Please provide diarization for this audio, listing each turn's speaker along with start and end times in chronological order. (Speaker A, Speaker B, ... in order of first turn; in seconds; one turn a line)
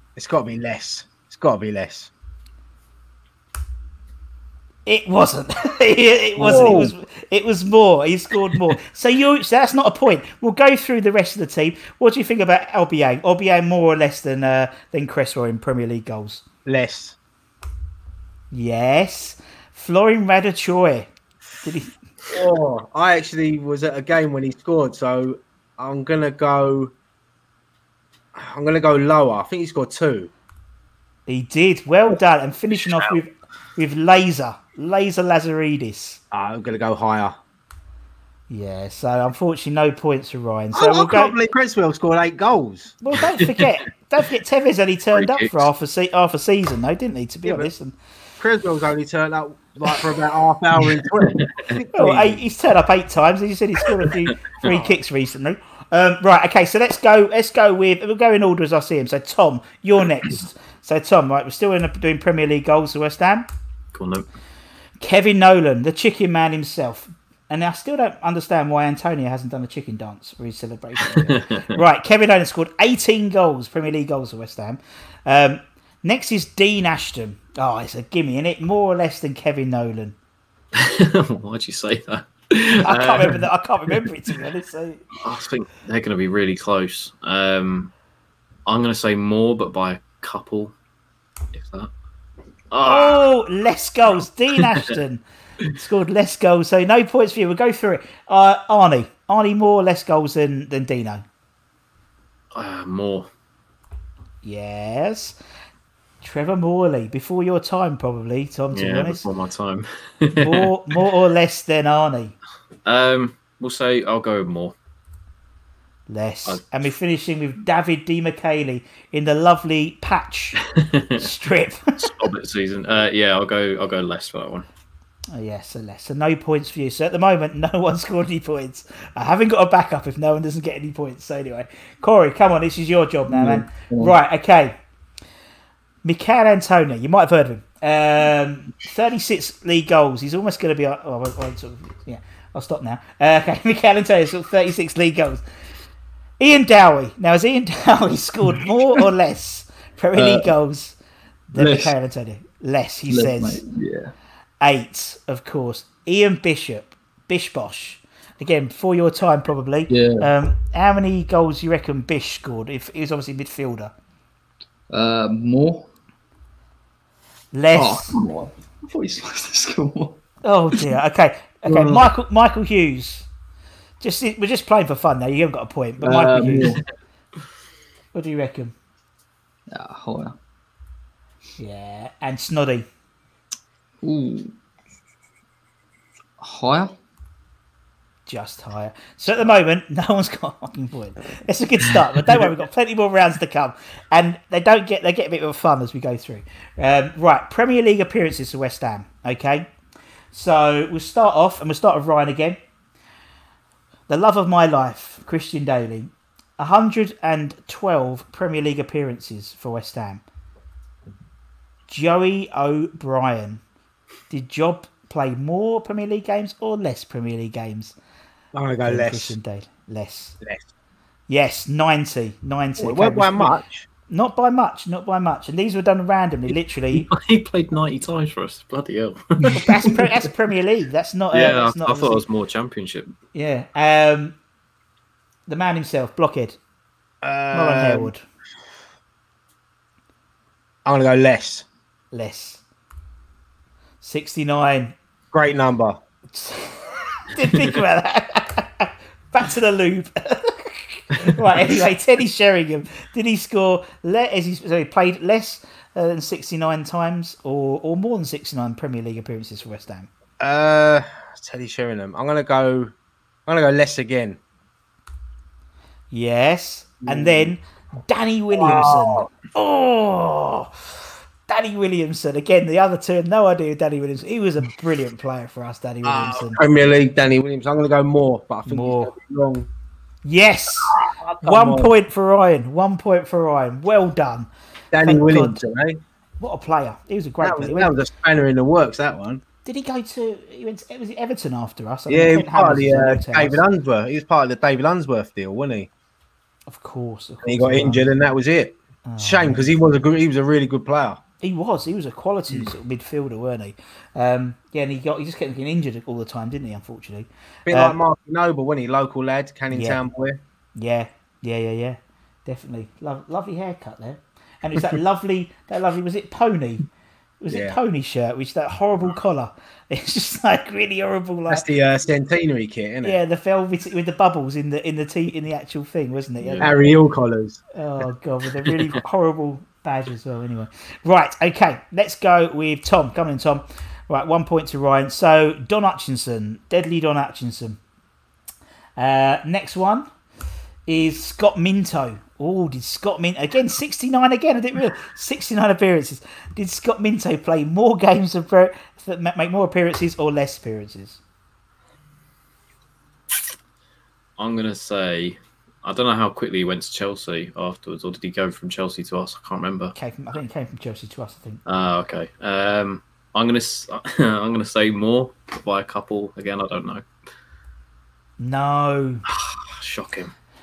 Speaker A: 0.2-2.1
Speaker B: 4.9-16.4
Speaker C: 6.4-6.9
Speaker A: 6.5-6.9
Speaker A: 16.7-17.2
Speaker B: 18.5-21.1
Speaker B: 21.6-21.9
Speaker A: 22.3-26.9
Speaker A: 28.3-30.3
Speaker B: 31.3-36.2
Speaker A: 36.3-37.4
Speaker B: 38.5-41.4
Speaker A: 40.7-43.0
Speaker B: 43.0-48.0
Speaker D: 43.2-43.5
Speaker D: 45.1-45.7
Speaker A: 48.4-52.5
Speaker B: 52.0-63.5
Speaker D: 54.6-54.9
Speaker D: 63.9-64.3
Speaker B: 65.0-80.2
Speaker D: 71.2-71.6
Speaker D: 80.8-83.4
Speaker B: 82.8-85.0
Speaker D: 85.2-87.9
Speaker D: 88.7-90.7
Speaker D: 91.5-91.9
Speaker D: 92.7-93.2
Speaker B: 92.8-95.2
Speaker B: 95.8-101.2
Speaker D: 102.5-103.3
Speaker B: 104.4-105.4
Speaker B: 106.2-109.3
Speaker D: 108.7-110.7
Speaker B: 110.4-112.3
Speaker D: 112.8-114.8
Speaker B: 116.1-120.6
Speaker D: 120.8-121.2
Speaker B: 121.2-122.3
Speaker D: 122.0-124.7
Speaker B: 125.3-134.8
Speaker C: 133.3-134.1
Speaker B: 136.0-145.4
Speaker B: 146.4-151.0
Speaker C: 150.2-150.5
Speaker B: 151.5-153.6
Speaker C: 151.6-152.0
Speaker C: 153.1-154.1
Speaker B: 154.6-163.9
Speaker C: 159.9-160.3
Speaker C: 164.9-165.9
Speaker B: 167.5-168.2
Speaker C: 167.7-170.2
Speaker B: 170.4-173.3
Speaker C: 171.7-172.1
Speaker B: 174.0-176.8
Speaker C: 176.0-176.8
Speaker B: 178.1-178.7
Speaker C: 179.7-180.4
Speaker B: 181.6-182.9
Speaker C: 184.0-184.5
Speaker C: 186.4-187.0
Speaker B: 188.3-199.7
Speaker B: 200.3-202.6
Speaker B: 204.1-210.2
Speaker B: 211.9-213.6
Speaker B: 214.3-218.0
Speaker A: 218.5-219.3
Speaker B: 218.8-220.4
Speaker B: 221.3-223.5
Speaker A: 222.8-223.9
Speaker B: 224.1-227.1
Speaker D: 226.9-230.0
Speaker B: 229.5-232.2
Speaker D: 231.3-233.1
Speaker B: 233.3-234.4
Speaker B: 235.5-236.6
Speaker A: 237.2-238.1
Speaker B: 237.5-238.2
Speaker A: 240.8-241.7
Speaker B: 242.1-242.6
Speaker B: 244.0-244.9
Speaker A: 245.3-246.0
Speaker B: 246.3-260.1
Speaker A: 260.4-262.9
Speaker A: 263.5-264.4
Speaker B: 266.1-276.6
Speaker A: 267.0-267.5
Speaker A: 268.5-269.3
Speaker A: 276.0-279.7
Speaker B: 278.7-279.1
Speaker B: 280.2-284.5
Speaker A: 281.0-281.9
Speaker A: 284.9-286.0
Speaker B: 285.0-285.6
Speaker B: 286.4-287.9
Speaker A: 287.4-289.4
Speaker B: 289.6-293.6
Speaker A: 292.1-295.9
Speaker B: 296.7-298.1
Speaker A: 297.4-301.2
Speaker B: 299.1-299.7
Speaker B: 301.4-308.0
Speaker A: 307.7-310.4
Speaker B: 309.7-310.0
Speaker B: 310.8-316.9
Speaker B: 317.4-321.6
Speaker A: 317.5-317.8
Speaker A: 321.5-323.2
Speaker B: 323.0-326.9
Speaker D: 326.4-326.7
Speaker A: 326.6-327.6
Speaker B: 327.8-337.8
Speaker B: 339.0-340.1
Speaker B: 340.9-351.2
Speaker D: 354.4-359.9
Speaker B: 359.9-361.6
Speaker D: 361.7-367.1
Speaker B: 368.4-369.2
Speaker D: 369.3-370.3